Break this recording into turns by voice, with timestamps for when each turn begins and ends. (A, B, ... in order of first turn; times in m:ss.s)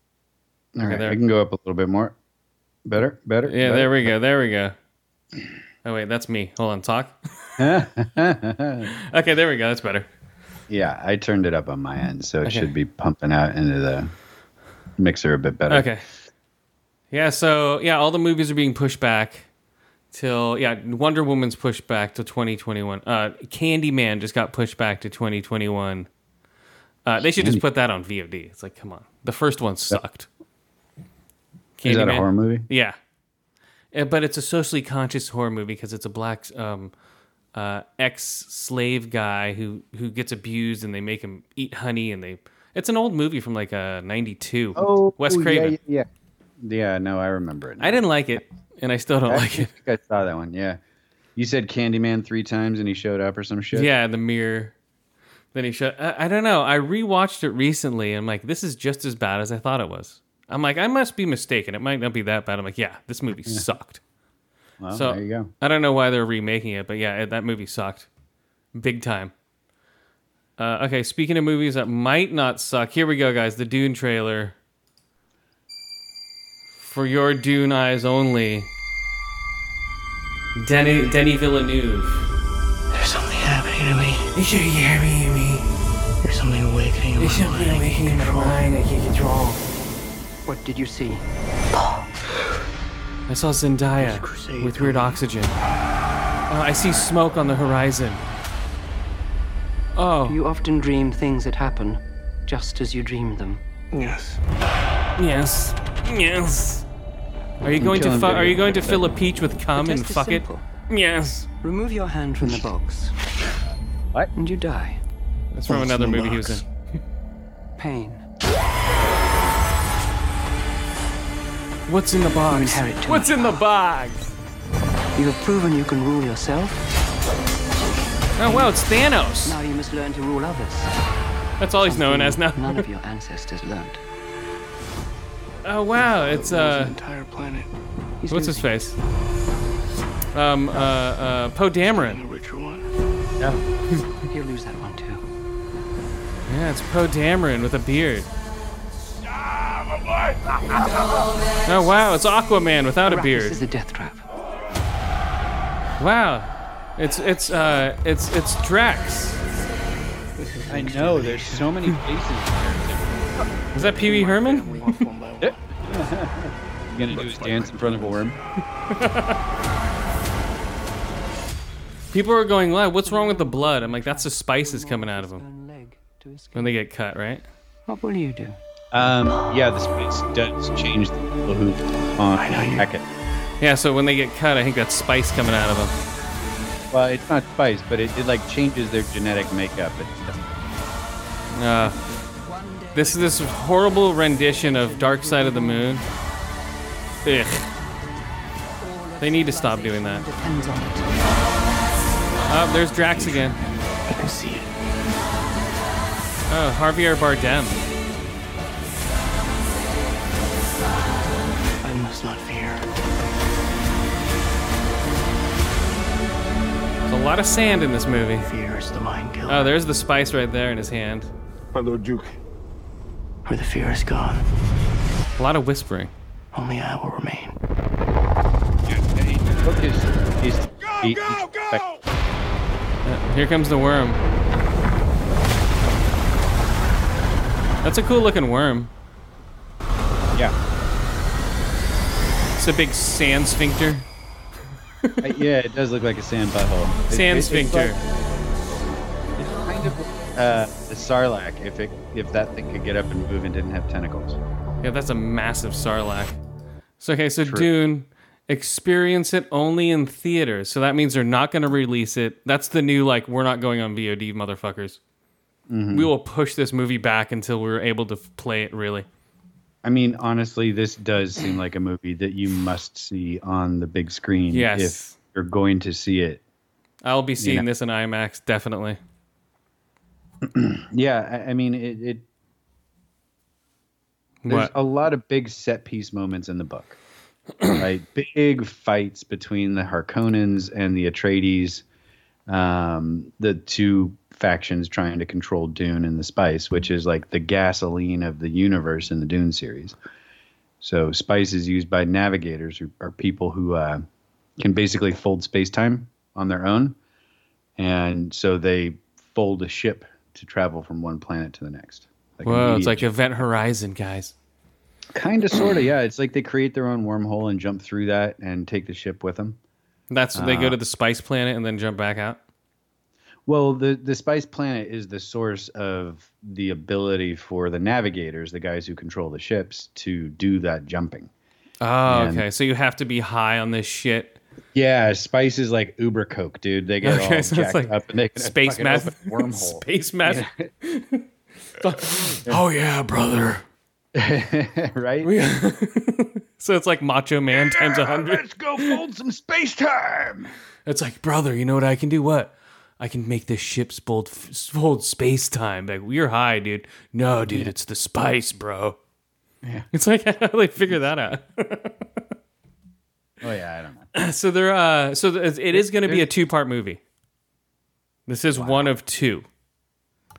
0:00.7-0:02.2 A
0:00.8-0:01.2 B
0:02.8-0:04.1 A
0:03.4-0:04.8 B
0:05.8-0:07.6 B
0:07.6-0:08.9 A
0:08.9-0:10.1 B
0:10.7-0:14.1 A
0:12.4-0:12.7 B
0:15.0-0:15.9 A
0:15.7-0:16.0 B
0:17.1-0:19.5 B
0:20.1-0:26.1 B
0:27.0-0:30.3 B
0:27.4-0:27.6 A
0:31.8-0:33.0 B
0:31.8-0:32.7 A
0:33.9-0:36.9 B
0:37.5-0:45.8 B
0:44.7-0:46.1 A
0:46.6-0:48.4 A
0:47.8-0:49.7 B
0:49.3-0:50.8 A
0:51.4-0:53.9 A
0:53.7-0:54.7 B
0:55.5-1:04.0 B
1:04.8-1:05.5 A
1:04.9-1:08.1 B
1:08.7-1:09.3 B
1:10.6-1:14.6 B
1:16.8-1:18.7 B
1:20.6-1:22.2 B
1:22.9-1:24.3 C
1:24.3-1:25.6 B
1:26.2-1:28.6 C
1:27.2-1:29.6 B
1:30.4-1:31.2 D
1:33.3-1:35.5 B
1:34.0-1:35.2 C
1:36.5-1:38.2 B
1:39.9-1:40.4 B
1:40.3-1:43.6 D
1:43.9-1:44.4 C
1:45.2-1:46.8 B
1:47.6-1:51.5 B
1:47.8-1:49.1 A
1:49.7-1:50.6 D
1:51.6-1:53.2 D
1:54.3-1:55.0 D
1:55.5-1:56.6 B
1:56.0-1:56.6 C
1:57.8-1:58.2 D
2:01.9-2:04.2 B
2:02.5-2:03.6 D
2:05.1-2:06.9 D
2:08.4-2:09.6 B
2:08.4-2:08.7 D
2:09.4-2:10.9 D
2:11.6-2:12.8 B
2:11.8-2:14.0 D
2:15.6-2:16.9 B
2:16.0-2:17.7 C
2:18.2-2:18.8 D
2:18.3-2:19.0 B
2:20.3-2:22.2 B
2:22.0-2:22.9 C
2:24.3-2:25.2 D
2:26.5-2:28.3 B
2:31.6-2:33.6 B
2:33.0-2:34.2 D
2:36.0-2:39.4 B
2:40.7-2:43.3 A
2:40.7-2:41.3 D
2:43.7-2:45.0 B
2:43.8-2:45.2 D
2:44.9-2:45.5 C
2:45.4-2:48.4 A
2:47.3-2:48.0 D
2:48.9-2:49.4 B
2:52.1-2:55.4 B
2:53.0-2:56.8 D
2:56.5-2:57.4 B
2:57.9-2:58.6 D
2:58.9-3:03.0 A
3:02.4-3:02.8 C
3:03.6-3:05.9 B
3:06.9-3:10.5 A
3:11.5-3:12.0 B
3:12.4-3:13.8 D
3:12.9-3:16.0 B
3:14.4-3:16.0 D
3:17.2-3:17.6 B
3:18.8-3:21.4 D
3:19.2-3:20.2 B
3:22.5-3:23.6 B
3:23.1-3:23.5 C
3:24.1-3:24.7 C
3:26.5-3:27.8 B
3:31.8-3:32.9 C
3:37.1-3:38.4 B
3:38.4-3:39.7 C
3:39.5-3:41.3 B
3:41.8-3:42.3 C
3:43.4-3:44.4 C
3:45.4-3:46.1 B
3:46.5-3:47.6 C
3:48.8-3:51.9 A
3:53.0-3:54.2 B
3:57.8-3:58.9 B
4:02.6-4:04.0 B
4:05.2-4:08.0 A
4:07.1-4:08.0 B
4:09.4-4:14.4 A
4:14.8-4:16.4 B
4:17.0-4:25.0 B
4:17.4-4:17.7 A
4:25.7-4:26.1 A
4:25.9-4:29.1 B
4:29.8-4:36.4 A
4:34.5-4:35.1 B
4:37.0-4:39.0 B
4:37.4-4:37.7 A
4:40.4-4:42.3 A
4:44.4-4:44.7 B
4:44.5-4:47.0 A
4:47.7-4:51.8 A
4:52.5-5:00.0 A
5:00.8-5:04.0 A
5:04.6-5:07.0 A
5:07.8-5:13.1 A
5:12.4-5:14.3 B
5:15.1-5:19.6 A
5:20.1-5:22.4 B
5:20.3-5:20.8 A
5:23.4-5:31.3 A
5:31.8-5:34.4 B
5:32.0-5:32.4 A
5:34.7-5:40.7 A
5:37.0-5:41.2 B
5:41.8-5:43.6 B
5:44.1-5:45.3 A
5:45.2-5:49.0 B
5:47.5-5:50.5 A
5:50.8-5:59.0 B
5:59.6-5:59.9 A
5:59.9-6:02.1 B
6:03.4-6:04.1 A
6:04.1-6:07.0 B
6:05.7-6:06.3 A
6:08.3-6:09.5 B
6:08.5-6:08.9 A